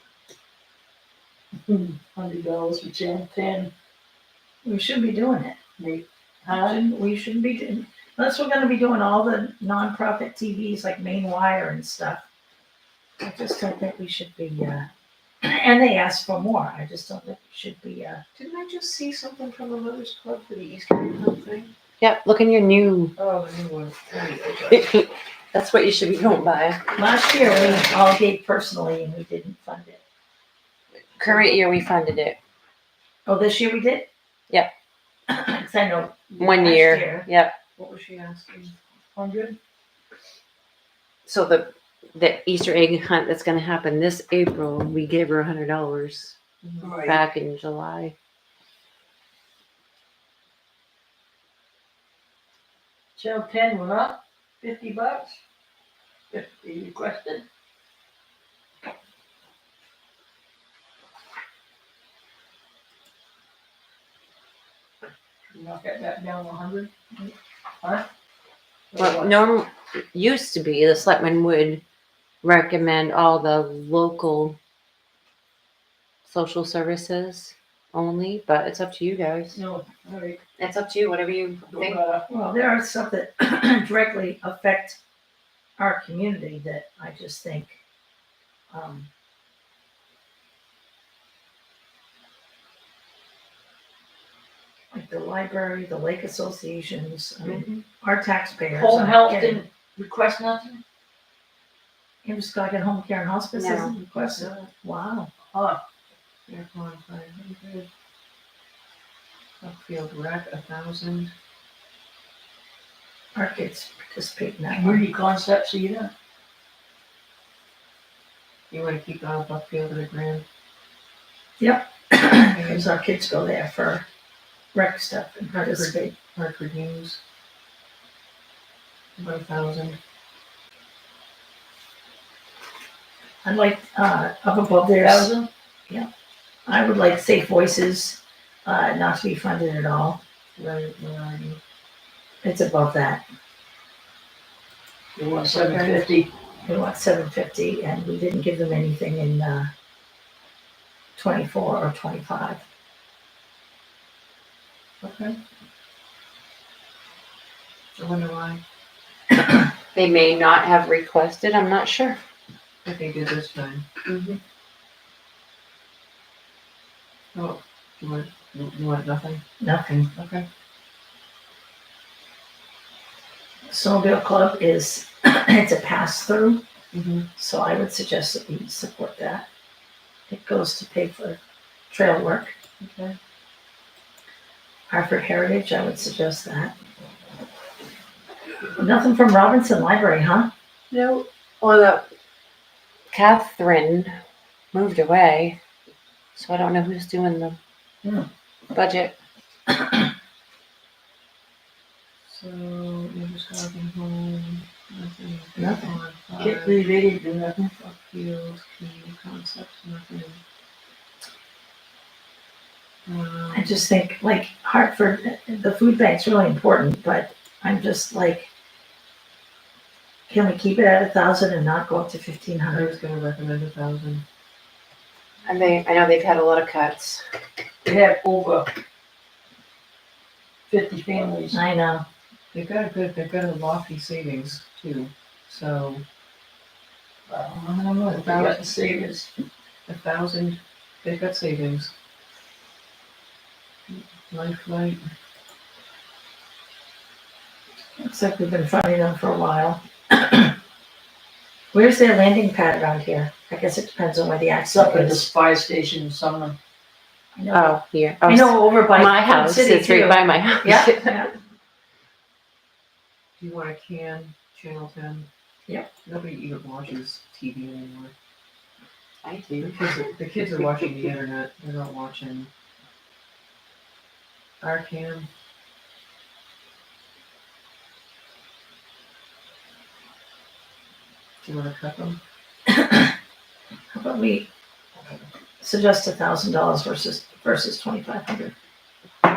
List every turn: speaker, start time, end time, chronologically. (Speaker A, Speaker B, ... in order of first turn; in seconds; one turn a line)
Speaker A: 1.7-3.7
Speaker B: 4.6-5.6
Speaker A: 5.8-6.8
Speaker B: 6.5-12.2
Speaker B: 13.2-14.9
Speaker B: 15.4-18.2
Speaker C: 18.4-21.7
Speaker D: 22.0-23.1
Speaker C: 23.1-24.9
Speaker D: 24.7-26.8
Speaker B: 26.9-30.0
Speaker C: 27.4-27.8
Speaker D: 31.2-32.4
Speaker B: 33.2-34.1
Speaker B: 35.3-37.3
Speaker D: 36.4-37.5
Speaker C: 37.8-38.8
Speaker A: 39.1-39.6
Speaker D: 41.2-46.4
Speaker C: 46.6-47.1
Speaker A: 46.8-47.2
Speaker D: 47.0-48.1
Speaker A: 53.1-55.4
Speaker A: 56.3-57.4
Speaker A: 65.5-67.3
Speaker A: 67.8-68.1
Speaker A: 68.9-69.4
Speaker D: 69.0-71.8
Speaker D: 72.4-74.6
Speaker D: 76.2-79.6
Speaker A: 79.5-80.4
Speaker D: 80.6-82.0
Speaker A: 81.7-82.3
Speaker B: 82.3-85.0
Speaker B: 85.8-87.8
Speaker B: 88.7-89.1
Speaker B: 94.9-99.6
Speaker A: 98.7-100.8
Speaker B: 102.2-105.3
Speaker D: 103.5-104.0
Speaker C: 104.1-104.7
Speaker A: 105.4-105.8
Speaker C: 106.5-107.9
Speaker C: 109.6-111.3
Speaker B: 113.3-115.0
Speaker A: 114.7-116.1
Speaker C: 118.7-120.4
Speaker B: 121.6-124.0
Speaker C: 122.5-122.9
Speaker B: 124.7-126.2
Speaker C: 125.5-127.2
Speaker C: 129.2-130.0
Speaker B: 133.4-135.3
Speaker A: 135.0-135.5
Speaker B: 136.7-140.2
Speaker C: 140.6-141.6
Speaker B: 142.4-143.2
Speaker A: 145.2-146.3
Speaker C: 145.5-146.0
Speaker B: 146.6-149.7
Speaker B: 151.2-152.6
Speaker C: 155.0-155.4
Speaker C: 157.9-158.6
Speaker B: 159.3-159.6
Speaker D: 159.9-162.2
Speaker C: 162.8-163.8
Speaker D: 164.0-164.4
Speaker C: 167.3-169.4
Speaker B: 169.6-170.1
Speaker C: 170.2-170.4
Speaker B: 173.7-176.6
Speaker C: 176.9-177.3
Speaker B: 177.3-179.4
Speaker B: 180.3-181.4
Speaker B: 181.9-182.5
Speaker C: 182.8-183.2
Speaker B: 184.9-186.7
Speaker B: 188.8-190.5
Speaker D: 190.9-192.0
Speaker D: 193.1-194.2
Speaker D: 194.7-195.6
Speaker D: 196.3-197.6
Speaker D: 198.7-199.2
Speaker C: 202.2-206.8
Speaker B: 205.6-205.9
Speaker A: 206.4-207.6
Speaker C: 207.6-210.4
Speaker C: 213.1-213.8
Speaker B: 213.5-218.5
Speaker B: 220.3-223.0
Speaker C: 222.7-224.2
Speaker D: 225.4-227.2
Speaker A: 227.8-228.7
Speaker A: 230.7-231.6
Speaker B: 231.5-232.1
Speaker C: 232.5-236.0
Speaker A: 237.3-239.3
Speaker C: 238.1-238.7
Speaker C: 239.9-241.9
Speaker C: 243.9-245.1
Speaker B: 248.0-250.5
Speaker B: 251.7-255.3
Speaker A: 254.7-256.6
Speaker B: 257.3-261.3
Speaker D: 257.5-261.2
Speaker C: 263.4-265.3
Speaker C: 266.0-268.1
Speaker D: 269.2-269.8
Speaker C: 269.6-272.5
Speaker C: 274.6-275.3
Speaker C: 281.4-282.2
Speaker B: 282.7-283.1
Speaker B: 283.9-284.5
Speaker B: 285.6-288.5